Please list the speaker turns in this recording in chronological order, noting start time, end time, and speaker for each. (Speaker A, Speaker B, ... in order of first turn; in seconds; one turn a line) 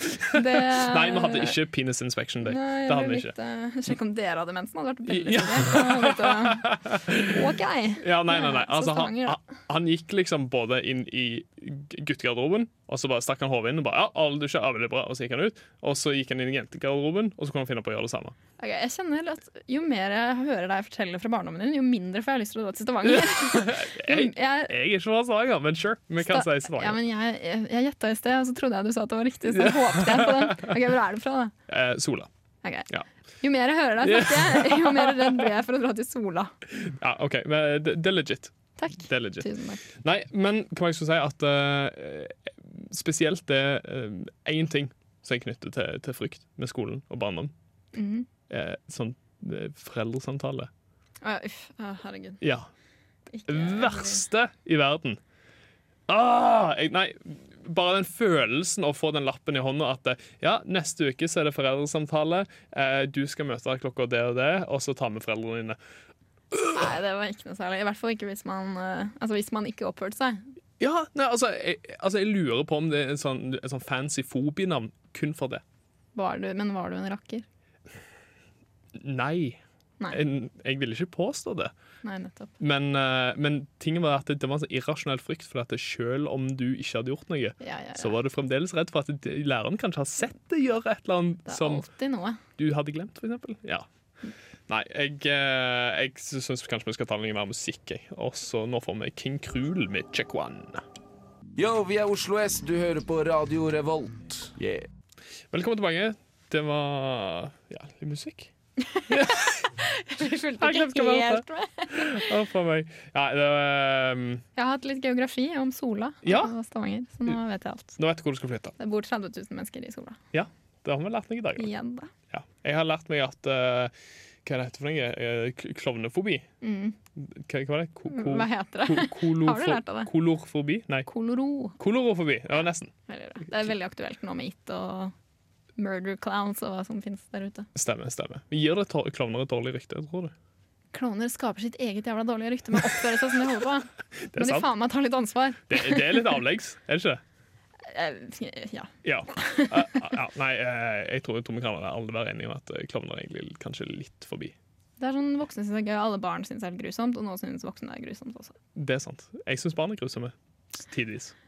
Speaker A: 0.1-3.3
Speaker B: 0.3-1.6
Speaker B: 2.4-9.4
Speaker A: 5.1-7.4
Speaker A: 8.0-18.4
Speaker B: 18.6-24.7
Speaker A: 23.1-27.0
Speaker B: 26.2-31.5
Speaker A: 29.5-30.6
Speaker A: 31.7-32.3
Speaker B: 33.4-36.5
Speaker A: 34.0-35.4
Speaker A: 36.7-47.5
Speaker B: 38.8-39.8
Speaker B: 47.9-48.3
Speaker A: 48.5-50.7
Speaker B: 51.2-52.4
Speaker A: 52.4-52.7
Speaker B: 53.3-54.2
Speaker A: 53.5-55.2
Speaker A: 56.1-65.8
Speaker B: 66.7-70.5
Speaker A: 70.8-75.6
Speaker B: 76.1-77.4
Speaker A: 79.0-81.7
Speaker B: 82.0-82.5
Speaker A: 82.6-91.8
Speaker B: 87.6-88.1
Speaker B: 91.5-92.4
Speaker A: 92.6-93.8
Speaker A: 94.7-100.8
Speaker C: 101.6-104.9
Speaker A: 105.5-108.5
Speaker B: 108.9-112.3
Speaker A: 109.1-109.6
Speaker A: 110.6-114.4
Speaker B: 114.5-118.0
Speaker A: 116.2-116.5
Speaker A: 118.0-118.7
Speaker B: 118.8-120.2
Speaker A: 120.3-121.7
Speaker B: 121.6-122.1
Speaker A: 122.3-123.9
Speaker A: 124.4-126.5
Speaker B: 126.6-127.0
Speaker A: 127.2-131.1
Speaker B: 128.1-130.1
Speaker B: 131.1-131.8
Speaker A: 131.8-132.9
Speaker B: 133.1-135.1
Speaker B: 135.8-137.7
Speaker A: 137.7-140.3
Speaker B: 140.9-146.3
Speaker A: 144.2-144.7
Speaker A: 145.7-147.2
Speaker B: 147.8-150.1
Speaker A: 149.0-154.5
Speaker B: 155.0-158.5
Speaker A: 158.7-161.3